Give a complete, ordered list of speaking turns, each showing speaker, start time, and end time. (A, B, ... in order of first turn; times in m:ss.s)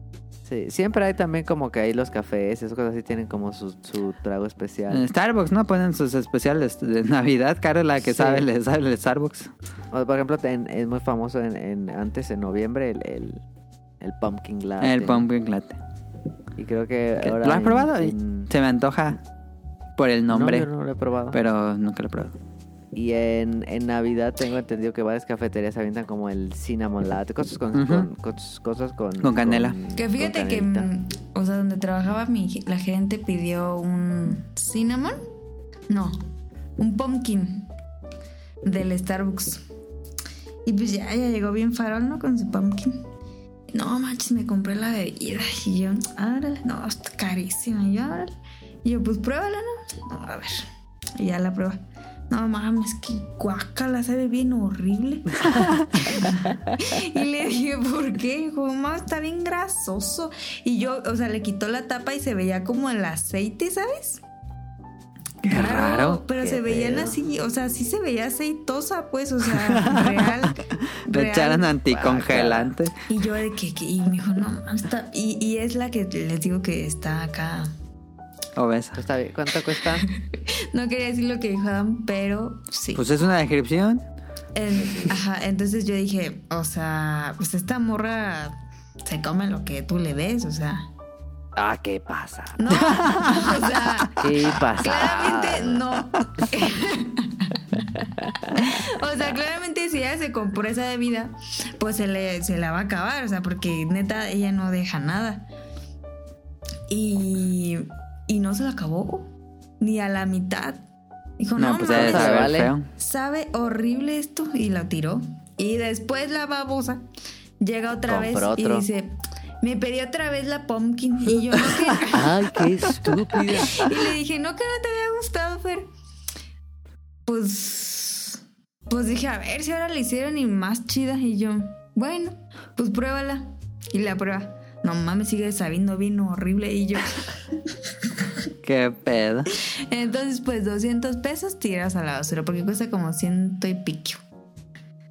0:00.4-0:05.0 A
0:04.9-0:09.5 B
0:08.0-0:08.5 A
0:09.9-0:13.4 A
0:14.0-0:15.3 A
0:14.8-0:15.8 B
0:16.6-0:18.5 A
0:17.2-0:19.2 B
0:20.0-0:20.7 B
0:20.3-0:21.4 A
0:21.3-0:22.3 B
0:22.9-0:30.9 A
0:27.7-0:28.1 B
0:29.2-0:29.8 B
0:30.0-0:35.2 C
0:35.9-0:36.2 C
0:36.8-0:37.7 C
0:38.6-0:39.6 C
0:40.6-0:43.0 C
0:43.7-0:48.3 C
0:48.8-0:50.7 C
0:51.2-1:04.2 C
0:55.5-0:55.9 B
1:05.4-1:06.2 B
1:05.5-1:11.7 C
1:06.4-1:07.2 A
1:09.6-1:10.5 B
1:11.0-1:13.0 B
1:11.9-1:12.7 A
1:13.1-1:17.7 C
1:18.6-1:19.0 B
1:19.0-1:20.0 A
1:20.3-1:23.0 C
1:23.0-1:24.0 B
1:24.6-1:30.9 C
1:24.7-1:25.2 A
1:31.6-1:32.6 A
1:32.6-1:37.6 C
1:32.8-1:33.6 B
1:34.2-1:35.8 A
1:38.0-1:38.6 A
1:38.5-1:45.5 C
1:46.9-1:49.3 C
1:49.8-1:50.8 C
1:51.4-1:52.4 C
1:51.6-1:52.9 B
1:51.9-1:52.7 A
1:53.0-1:57.0 C
1:57.6-2:05.9 C
1:58.1-1:58.9 A
2:02.1-2:03.9 A
2:07.3-2:17.2 C
2:18.6-2:19.5 B
2:19.9-2:24.2 C